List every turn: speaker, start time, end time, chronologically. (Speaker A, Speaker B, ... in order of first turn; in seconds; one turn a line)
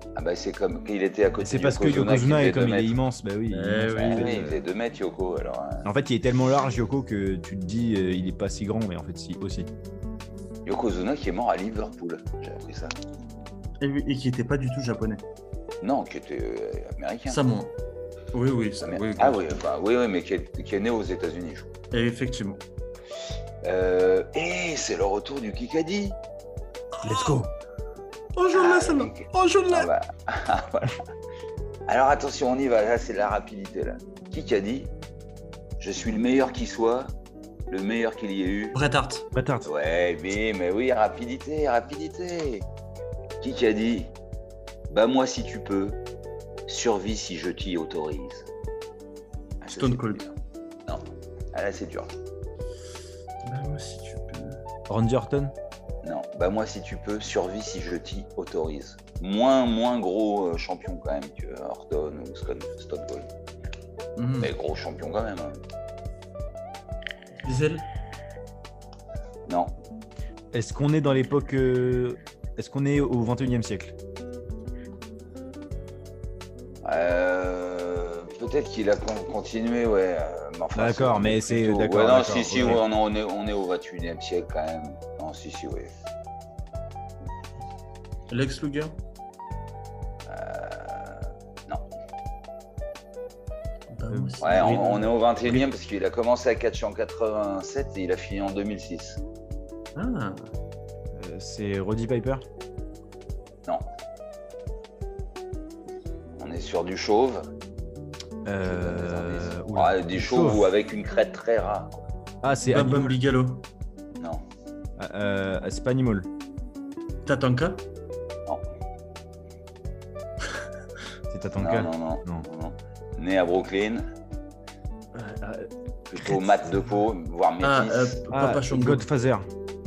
Speaker A: 0.1-2.9
Speaker B: 1.4-4.6
Speaker C: 3.5-4.3
Speaker A: 4.0-5.9
Speaker B: 5.8-9.7
Speaker A: 10.7-12.9
Speaker C: 13.8-15.2
Speaker A: 15.8-17.4
Speaker C: 17.3-17.7
Speaker C: 18.3-19.4
Speaker A: 18.8-21.7
Speaker C: 21.9-22.6
Speaker A: 23.6-26.2
Speaker C: 27.0-27.5
Speaker C: 28.4-29.9
Speaker A: 28.5-31.0
Speaker A: 31.9-34.9
Speaker A: 35.8-37.1
Speaker A: 37.7-38.8
Speaker C: 38.7-39.3
Speaker B: 39.3-39.7
Speaker A: 39.6-42.7
Speaker A: 43.4-44.1
Speaker A: 44.9-46.0
Speaker A: 46.7-48.5
Speaker A: 49.6-50.3
Speaker C: 49.7-50.2
Speaker A: 50.9-52.1
Speaker C: 53.4-54.6
Speaker B: 54.9-55.5
Speaker A: 56.0-63.3
Speaker C: 64.2-64.5
Speaker A: 64.4-65.6
Speaker C: 67.4-67.8
Speaker A: 69.5-69.7
Speaker B: 70.5-74.0
Speaker A: 76.8-85.9
Speaker B: 80.7-82.8
Speaker C: 88.3-89.0
Speaker A: 90.3-91.8
Speaker C: 93.9-95.1
Speaker B: 94.1-94.8
Speaker A: 94.4-99.2
Speaker C: 99.9-100.5
Speaker B: 101.1-102.4
Speaker A: 106.4-107.5
Speaker B: 108.4-110.7
Speaker A: 108.6-112.0
Speaker B: 112.4-113.1
Speaker C: 112.7-113.6
Speaker A: 114.2-114.4
Speaker B: 115.0-116.3
Speaker C: 117.2-117.8
Speaker B: 121.3-122.5
Speaker A: 121.6-124.0
Speaker C: 125.1-125.7
Speaker A: 126.1-128.2
Speaker C: 127.6-129.1
Speaker B: 128.3-129.5